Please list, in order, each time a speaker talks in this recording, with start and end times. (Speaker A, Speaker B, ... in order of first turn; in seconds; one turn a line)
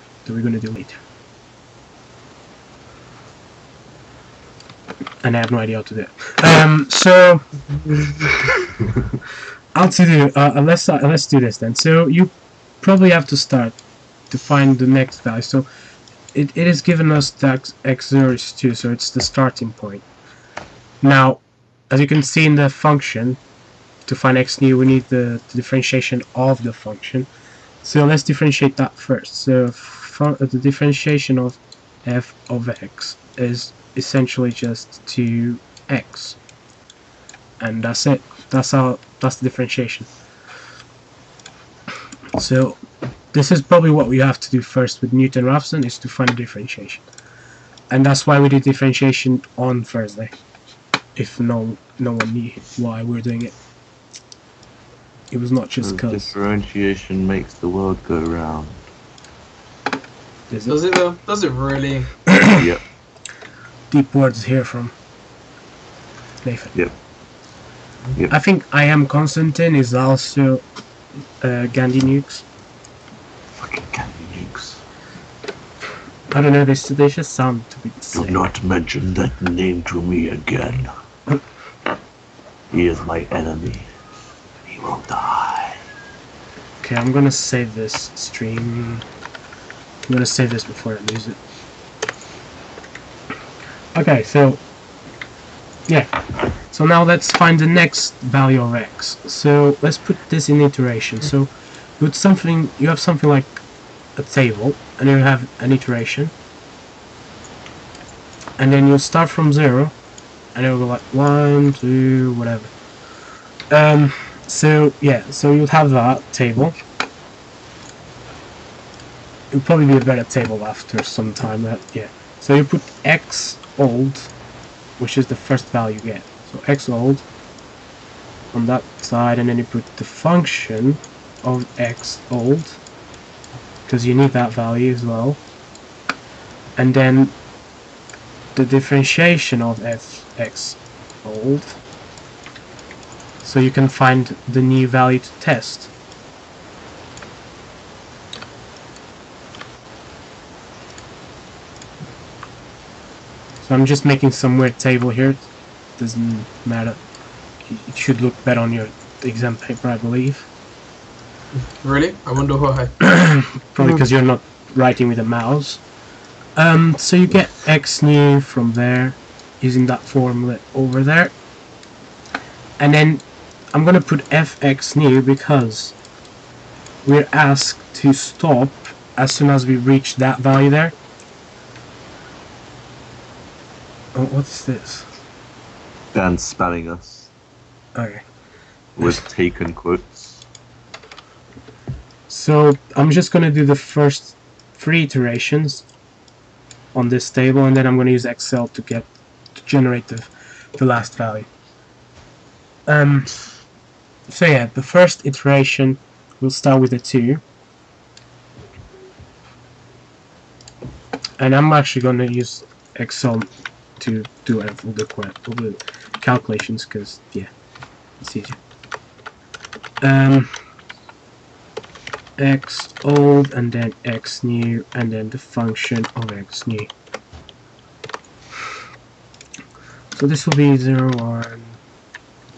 Speaker A: 0.2-1.0
Speaker A: 5.2-7.4
Speaker A: 9.7-13.8
Speaker A: 14.3-15.7
Speaker A: 16.3-20.0
Speaker A: 21.0-23.4
Speaker A: 24.1-27.3
Speaker A: 27.8-36.4
Speaker A: 37.6-40.1
Speaker A: 42.4-42.8
Speaker A: 43.3-47.0
Speaker A: 47.9-50.3
Speaker A: 51.1-53.5
Speaker A: 55.3-56.3
Speaker B: 55.8-58.8
Speaker A: 60.5-60.8
Speaker C: 60.7-62.1
Speaker A: 62.3-62.6
Speaker B: 62.5-62.8
Speaker A: 63.9-64.9
Speaker A: 66.4-66.7
Speaker A: 68.3-70.6
Speaker A: 71.4-72.4
Speaker B: 73.6-74.8
Speaker A: 76.3-78.5
Speaker B: 78.1-80.9
Speaker B: 82.7-83.9
Speaker B: 84.7-85.8
Speaker A: 86.8-89.0
Speaker A: 90.1-91.4
Speaker A: 93.9-94.6
Speaker A: 96.7-103.6
Speaker A: 104.2-106.3
Speaker A: 108.6-109.9
Speaker A: 110.5-112.7
Speaker A: 113.7-116.8
Speaker A: 119.5-124.3
Speaker A: 125.0-127.2
Speaker A: 128.5-132.8
Speaker A: 133.8-135.4
Speaker A: 136.8-137.3
Speaker A: 138.5-141.8
Speaker A: 143.4-145.9
Speaker A: 153.6-155.4
Speaker A: 156.0-157.0
Speaker A: 157.6-160.5
Speaker C: 161.8-163.1
Speaker A: 163.0-165.8
Speaker A: 166.6-171.3
Speaker A: 172.8-175.9
Speaker A: 177.0-180.9
Speaker A: 184.1-185.1
Speaker B: 186.1-187.3
Speaker A: 187.9-188.2
Speaker B: 189.0-190.4
Speaker A: 192.3-195.8
Speaker A: 196.9-201.5
Speaker A: 202.9-203.4
Speaker A: 204.3-207.4
Speaker A: 211.4-217.5
Speaker A: 218.2-218.6
Speaker A: 220.0-220.5
Speaker A: 222.4-226.9
Speaker A: 230.1-231.8